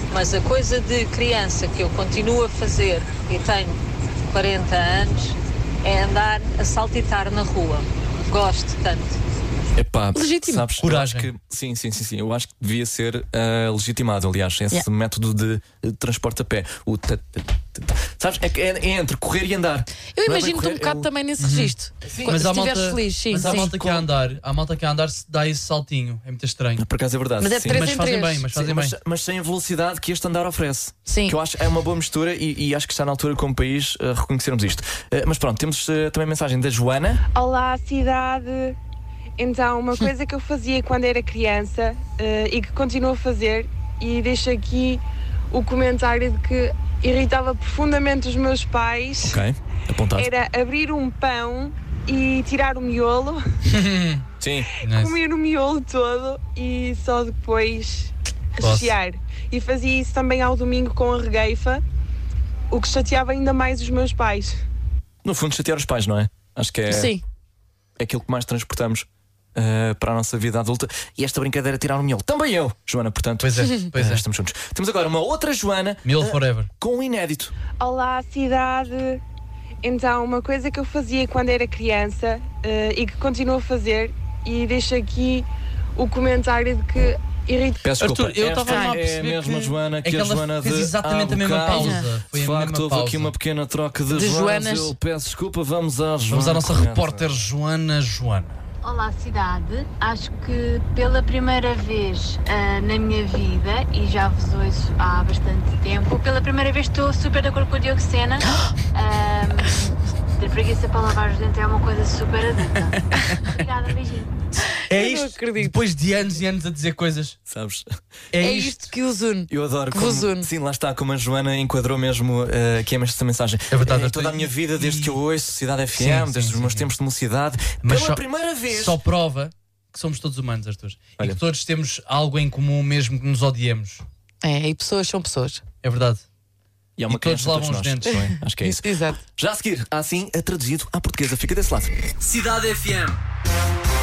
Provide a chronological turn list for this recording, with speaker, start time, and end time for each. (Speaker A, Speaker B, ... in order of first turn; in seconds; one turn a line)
Speaker A: 0.1-9.2
Speaker B: 9.8-21.1
Speaker C: 10.2-10.7
Speaker D: 10.8-11.3
Speaker C: 20.1-23.7
Speaker D: 21.4-21.7
Speaker B: 22.1-22.4
Speaker D: 22.2-26.8
Speaker B: 23.3-24.1
Speaker B: 26.8-28.0
Speaker C: 27.4-28.4
Speaker D: 27.7-28.9
Speaker B: 28.5-37.2
Speaker C: 31.1-31.4
Speaker E: 37.3-38.8
Speaker E: 39.4-49.4
Speaker B: 49.2-50.3
Speaker E: 50.1-53.5
Speaker D: 53.7-54.2
Speaker B: 54.4-54.7
Speaker D: 54.8-55.2
Speaker E: 54.8-61.8
Speaker D: 58.6-59.0
Speaker E: 62.7-64.6
Speaker B: 65.2-67.2
Speaker C: 66.9-67.2
Speaker B: 68.0-77.5
Speaker D: 73.4-74.2
Speaker D: 76.0-76.7
Speaker E: 77.8-79.2
Speaker E: 79.8-87.8
Speaker B: 87.8-97.3
Speaker D: 88.0-93.3
Speaker C: 88.7-88.9
Speaker C: 91.7-92.1
Speaker C: 94.1-95.0
Speaker D: 96.3-98.6
Speaker F: 98.8-114.3
Speaker D: 114.9-117.4
Speaker C: 114.9-115.8
Speaker B: 117.5-117.9
Speaker D: 118.3-118.9
Speaker C: 118.4-120.5
Speaker B: 119.5-129.0
Speaker D: 123.7-125.2
Speaker D: 126.0-126.9
Speaker D: 127.8-134.1
Speaker C: 134.4-135.6
Speaker D: 135.8-136.2
Speaker B: 137.0-141.9
Speaker D: 137.1-138.2
Speaker C: 138.1-139.2
Speaker D: 142.2-143.2